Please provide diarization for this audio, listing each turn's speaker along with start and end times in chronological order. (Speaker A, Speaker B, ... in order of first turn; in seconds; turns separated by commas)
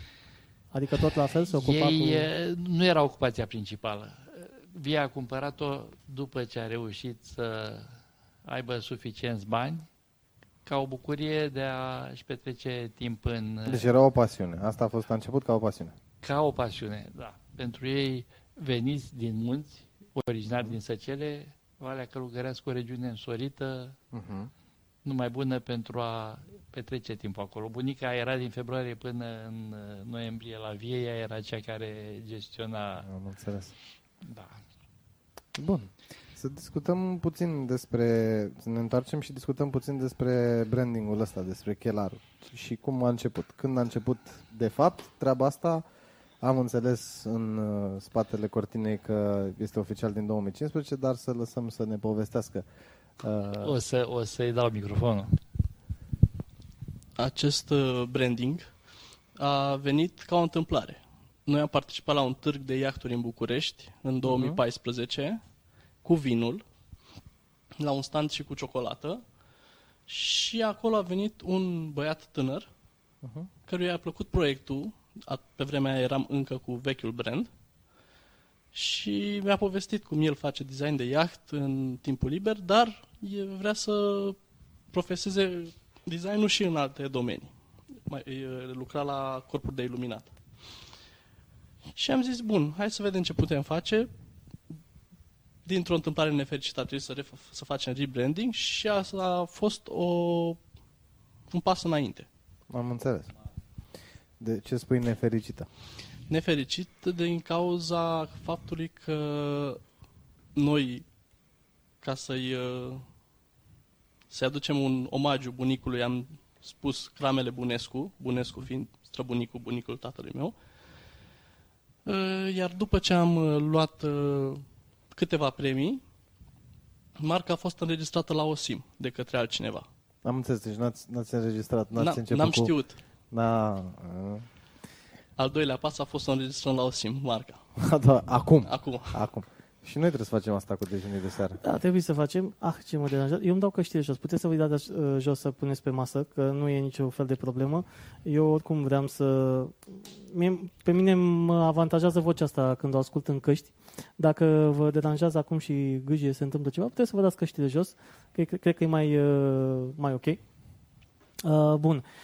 Speaker A: 0.7-2.3, Speaker B: 1.6-7.9, Speaker B: 8.4-9.9, Speaker B: 10.7-13.9, Speaker C: 13.7-15.9, Speaker B: 16.2-24.0, Speaker C: 24.1-24.5, Speaker B: 25.0-33.1, Speaker C: 33.1-33.7, Speaker B: 34.2-34.6, Speaker C: 35.6-45.8, Speaker C: 46.4-52.6, Speaker C: 53.2-53.8, Speaker B: 53.6-55.4, Speaker D: 57.2-58.7, Speaker D: 59.4-65.4, Speaker C: 64.2-64.6, Speaker D: 66.0-66.6, Speaker D: 67.8-69.2, Speaker D: 70.1-72.7, Speaker C: 73.2-73.5, Speaker D: 73.7-77.5, Speaker D: 78.7-84.4, Speaker D: 84.9-87.5, Speaker D: 88.1-90.3, Speaker D: 92.0-94.1, Speaker D: 95.7-100.6, Speaker D: 101.5-102.3, Speaker C: 102.7-103.3, Speaker C: 104.4-105.7, Speaker D: 106.3-109.8, Speaker D: 110.5-111.0, Speaker D: 112.0-113.0, Speaker D: 114.3-120.5, Speaker D: 122.0-126.0, Speaker D: 127.2-129.9, Speaker C: 130.2-132.7, Speaker D: 132.0-133.0, Speaker C: 133.3-134.4, Speaker D: 135.4-137.6, Speaker C: 137.8-141.6, Speaker D: 138.7-139.2, Speaker A: 141.6-160.4, Speaker A: 161.4-162.1